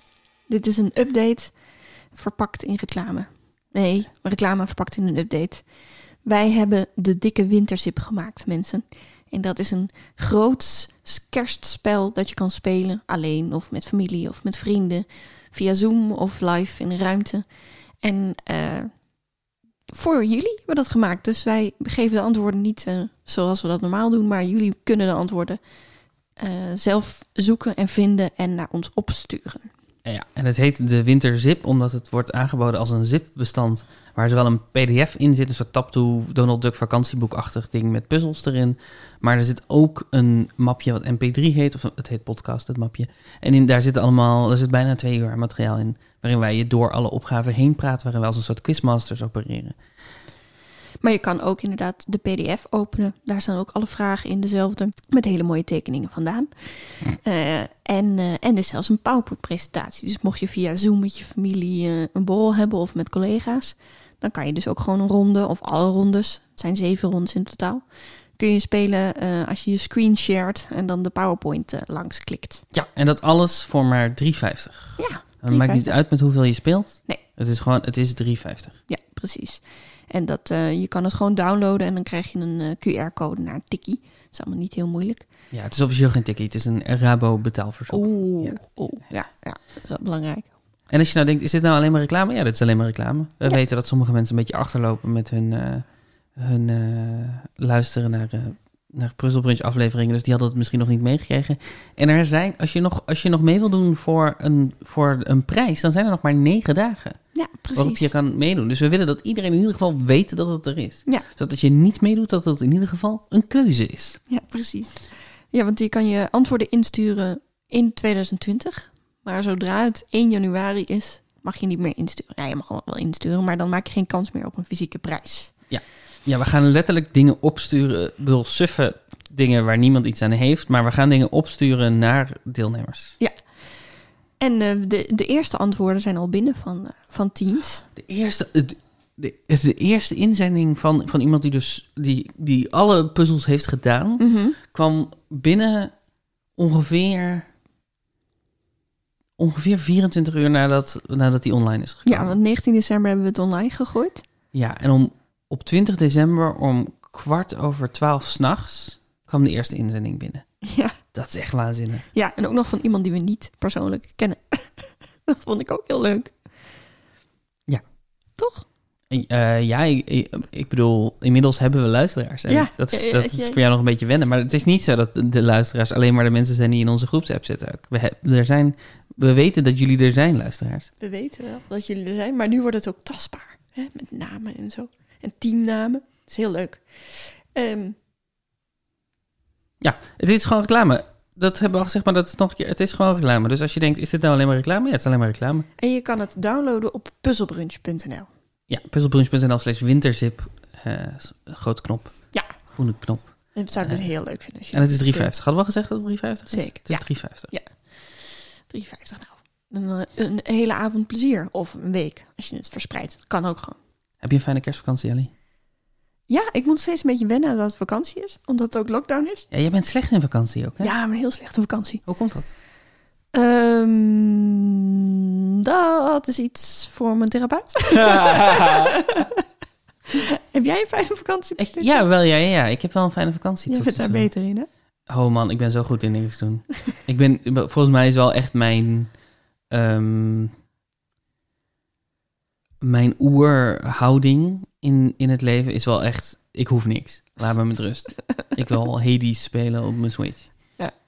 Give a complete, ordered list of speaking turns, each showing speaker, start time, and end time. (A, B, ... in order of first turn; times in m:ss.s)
0:00.5-0:01.5 A
0:02.1-0:05.6 A
0:06.2-0:17.4 A
0:18.0-0:18.9 A
0:19.9-0:25.6 A
0:26.4-0:29.7 A
0:30.0-0:49.8 B
0:51.0-1:07.8 A
1:08.4-1:12.6 A
1:12.7-1:18.7 B
1:15.0-1:16.0 A
1:18.9-1:25.2 A
1:25.5-1:28.6 B
1:27.9-1:30.5 A
1:30.9-1:47.2 B
1:47.3-1:48.1 A
1:47.7-1:54.2 B
1:54.3-2:05.5 A
2:05.7-2:13.2 B
2:14.4-2:17.8 A
2:18.0-2:25.9 B
2:24.2-2:24.6 A
2:26.6-2:27.5 B
2:29.4-2:32.4 B
2:32.0-2:34.2 A
2:34.5-2:40.4 B
2:40.6-2:41.0 A
2:41.1-2:42.0 B
2:42.1-2:46.3 A
2:48.4-2:48.6 A
2:49.1-3:00.9 B
2:52.5-2:53.6 A
3:01.0-3:08.0 A
3:09.8-3:15.7 B
3:15.8-3:18.3 A
3:18.7-3:22.2 B
3:22.7-3:24.0 B
3:23.5-3:25.4 A
3:24.7-3:27.5 B
3:26.5-3:33.8 A
3:34.2-3:35.3 B
3:36.3-3:39.5 A
3:39.5-3:40.9 B
3:40.8-3:42.0 A
3:42.0-3:42.5 B
3:43.3-3:49.4 A
3:50.1-3:52.0 A
3:51.6-3:54.3 B
3:53.7-3:54.7 A
3:55.1-3:59.1 B
3:59.7-4:00.5 B
4:02.8-4:10.5 B